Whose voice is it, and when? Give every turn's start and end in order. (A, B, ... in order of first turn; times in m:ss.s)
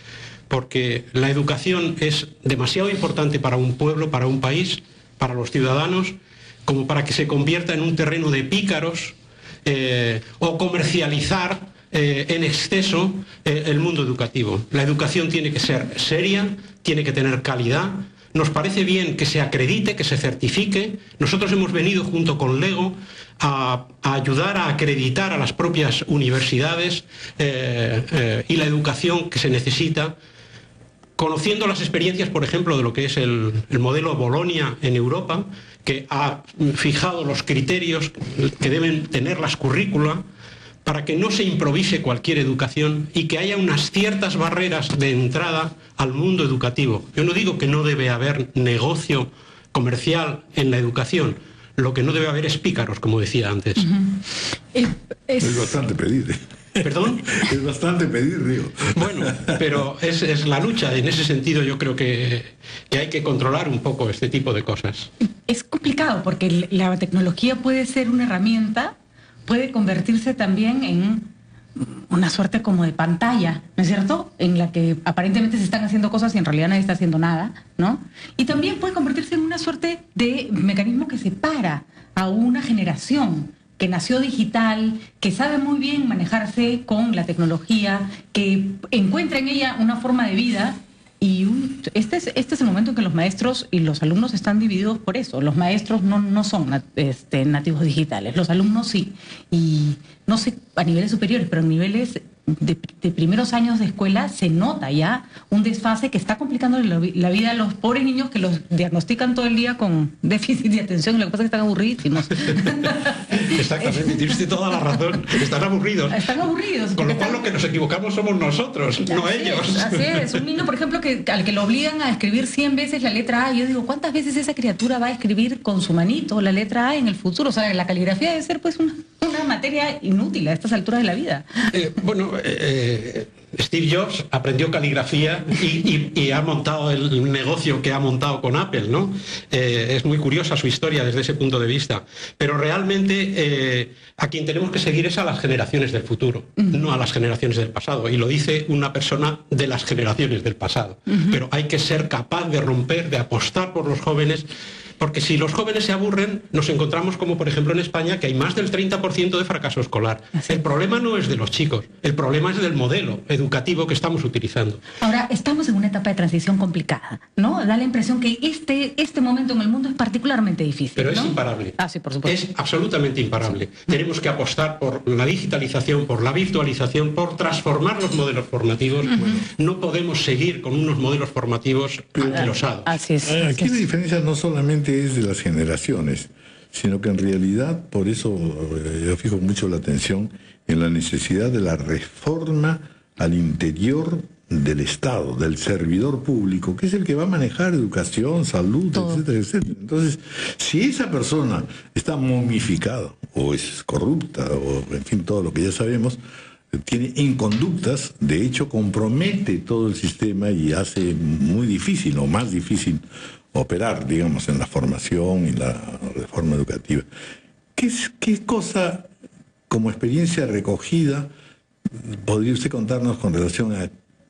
0:00.5-0:30.2 A
0:31.2-0:40.2 A
0:40.8-0:53.9 A
0:53.8-0:54.2 B
0:54.7-0:55.8 B
0:55.4-0:59.5 C
0:56.8-0:57.3 A
0:59.0-1:05.1 A
1:05.5-1:09.0 B
1:09.5-1:53.9 B
1:53.3-1:56.3 A
1:56.1-1:57.4 B
1:57.0-2:00.4 A
1:59.0-2:11.5 B
2:11.7-2:34.5 A
2:26.6-2:26.8 B
2:35.0-2:44.8 A
2:45.0-2:52.4 B
2:51.0-3:02.9 A
2:59.1-2:59.5 C
3:02.2-3:02.5 C
3:02.3-3:03.8 B
3:03.2-3:26.2 C
3:19.0-3:19.2 B
3:26.7-3:37.1 C
3:37.8-3:39.1 C
3:39.7-3:41.3 C
3:41.9-3:43.9 C